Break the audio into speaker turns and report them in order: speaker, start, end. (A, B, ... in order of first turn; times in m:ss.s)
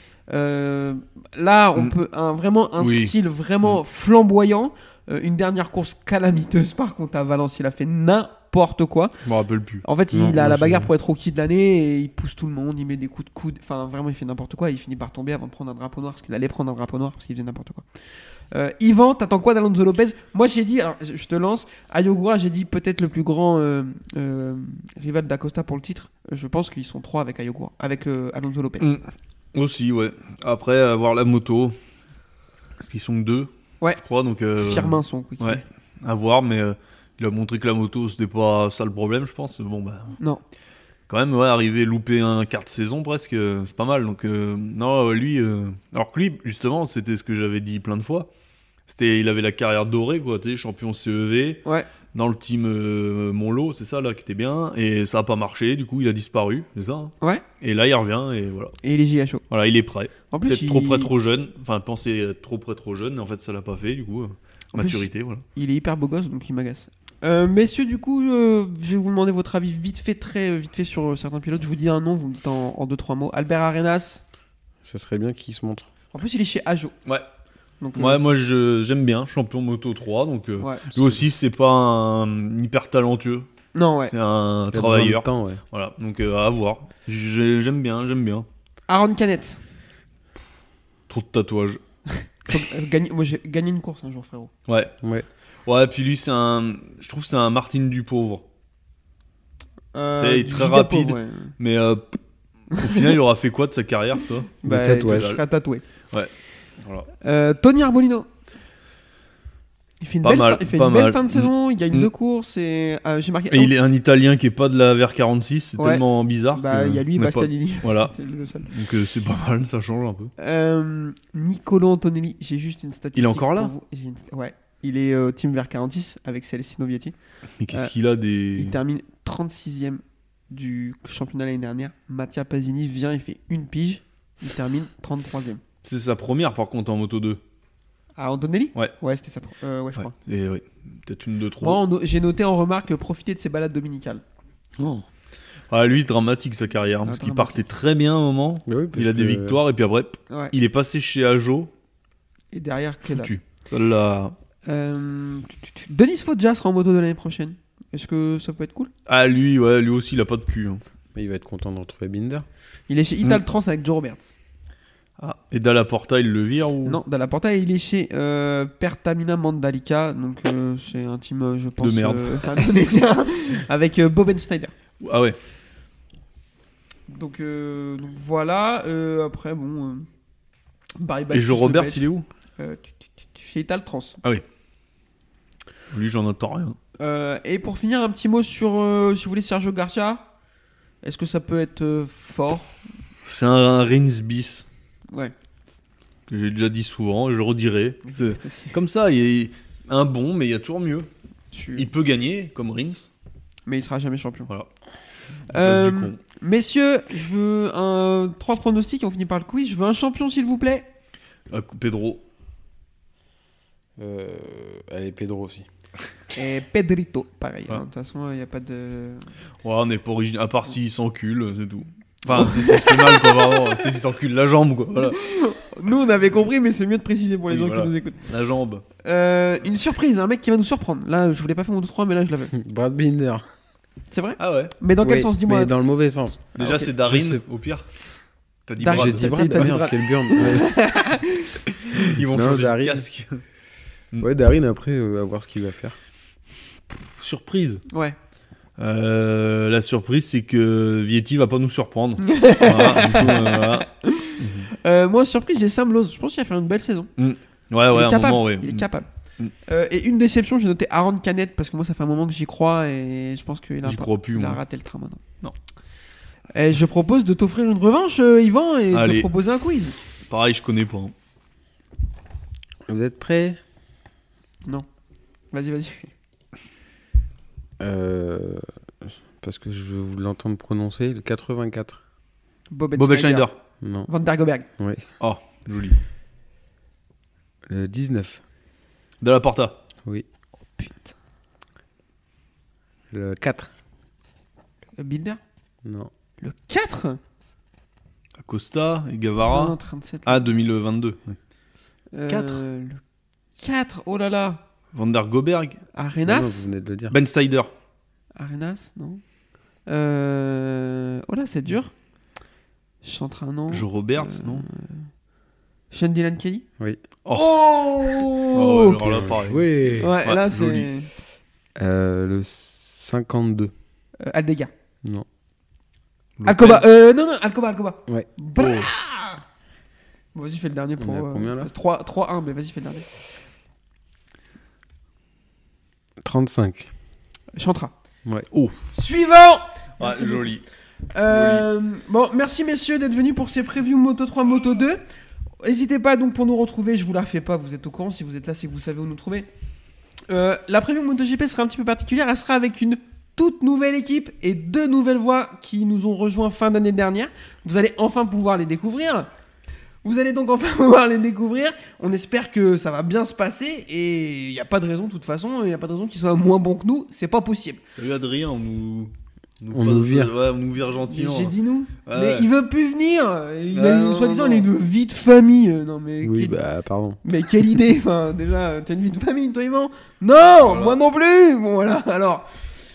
0:00.3-0:09.2 A
0:02.8-0:03.1 B
0:09.2-0:09.8 B
0:09.8-0:17.8 A
0:10.1-0:10.9 C
0:18.5-0:28.9 A
0:28.8-0:31.8 B
0:32.8-0:40.2 B
0:34.6-0:35.6 A
0:41.1-0:48.3 B
0:48.9-0:58.8 B
0:58.8-0:59.4 A
0:59.5-1:05.4 B
1:00.3-1:01.1 A
1:04.7-1:14.2 A
1:14.8-1:15.9 C
1:16.1-1:17.0 A
1:17.8-1:18.3 A
1:18.0-1:23.5 B
1:20.6-1:21.2 A
1:23.7-1:24.1 A
1:24.1-1:28.5 B
1:24.7-1:25.6 C
1:28.9-1:29.6 A
1:31.1-1:31.8 B
1:32.1-1:34.5 A
1:34.7-1:34.9 B
1:35.7-1:38.4 B
1:39.9-1:41.5 A
1:40.2-1:42.2 B
1:42.7-1:45.4 B
1:42.7-1:43.2 A
1:44.6-1:45.8 A
1:44.6-1:45.3 C
1:46.1-1:47.1 B
1:47.2-1:48.3 A
1:50.0-1:53.7 A
1:50.2-1:52.1 B
1:53.5-1:58.1 B
1:55.8-1:58.7 A
1:58.7-2:00.3 B
2:00.4-2:07.2 A
2:03.2-2:03.7 B
2:07.6-2:08.8 B
2:08.6-2:15.6 A
2:15.8-2:17.4 B
2:18.2-2:20.1 A
2:20.0-2:21.8 B
2:21.6-2:24.2 A
2:24.8-2:25.1 B
2:25.7-2:31.7 B
2:27.0-2:27.6 A
2:28.7-2:29.6 C
2:32.5-2:33.4 A
2:33.0-2:34.4 B
2:34.7-2:38.9 A
2:39.1-2:40.8 B
2:41.2-2:42.5 C
2:42.9-2:44.3 A
2:45.2-2:47.0 B
2:46.8-2:54.7 A
2:51.8-2:52.4 B
2:55.0-2:55.4 B
2:57.1-3:00.1 A
3:01.0-3:02.0 A
3:01.3-3:02.3 B
3:02.6-3:04.2 A
3:05.9-3:06.8 B
3:07.0-3:10.2 A
3:11.0-3:12.8 A
3:13.2-3:14.6 B
3:16.3-3:21.1 B
3:18.1-3:18.8 A
3:21.5-3:21.9 A
3:21.8-3:23.1 B
3:23.7-3:24.5 A
3:25.5-3:30.9 A
3:25.6-3:26.2 B
3:31.5-3:32.2 B
3:34.0-3:35.7 C
3:36.3-3:39.2 A
3:39.6-3:45.2 B
3:42.3-3:43.8 A
3:45.0-3:48.3 A
3:47.5-3:48.8 B
3:49.0-3:52.5 A
3:52.5-3:53.4 C
3:54.1-3:55.7 A
3:54.4-3:54.7 B
3:55.0-3:57.4 C
3:56.6-3:56.9 A
3:56.6-3:57.9 B
3:58.7-3:59.8 B
3:58.8-4:02.1 A
3:58.9-4:00.7 C
4:02.0-4:03.4 B
4:02.2-4:03.1 C
4:04.2-4:06.0 C
4:07.2-4:07.8 B
4:07.9-4:08.2 A
4:08.8-4:13.9 B
4:12.2-4:17.1 A
4:14.4-4:14.7 B
4:17.2-4:18.9 B
4:17.9-4:19.1 A
4:19.7-4:25.2 A
4:23.8-4:24.6 B
4:26.5-4:30.0 A
4:28.9-4:29.3 B
4:30.3-4:31.1 B
4:32.9-4:33.6 C
4:35.5-4:36.1 A
4:37.8-4:38.7 C
4:39.4-4:42.0 C
4:42.7-4:43.5 A
4:43.0-4:43.6 B
4:43.8-4:44.1 C
4:44.1-4:44.7 A
4:44.8-4:45.1 C
4:45.2-4:46.0 B
4:47.7-4:48.4 C
4:49.2-4:49.8 B
4:50.7-4:51.1 A
4:53.1-4:53.7 C
4:55.0-4:55.4 A
4:55.8-4:56.1 C
4:56.4-4:57.2 A
4:58.4-4:59.8 B
4:59.5-5:00.4 A
5:00.3-5:01.4 B
5:02.1-5:03.0 A
5:02.3-5:02.6 B
5:03.6-5:04.6 A
5:04.9-5:05.8 B
5:05.9-5:06.7 A
5:06.3-5:07.2 C
5:07.1-5:07.7 B
5:08.4-5:09.2 A
5:09.9-5:11.9 A
5:13.0-5:15.1 A
5:13.7-5:14.7 B
5:15.9-5:16.6 A
5:17.3-5:19.2 A
5:18.5-5:19.6 B
5:19.0-5:20.2 C
5:20.0-5:21.1 A
5:20.2-5:20.9 B
5:21.8-5:23.7 C
5:24.2-5:24.7 A
5:26.4-5:26.8 B
5:26.4-5:29.4 A
5:28.6-5:28.9 B
5:30.4-5:33.1 A
5:31.0-5:31.7 C
5:36.2-5:36.9 C
5:37.6-5:37.9 A
5:38.5-5:38.8 B
5:38.9-5:40.6 A
5:40.0-5:40.6 B
5:41.1-5:45.0 A
5:41.3-5:41.6 B
5:45.6-5:49.5 A
5:50.3-5:59.3 A
6:00.0-6:07.8 A
6:08.0-6:11.5 B
6:09.7-6:10.3 C
6:11.1-6:16.6 A
6:12.1-6:12.5 B
6:13.7-6:14.7 B
6:16.2-6:17.2 C
6:17.2-6:22.5 A
6:20.6-6:21.0 B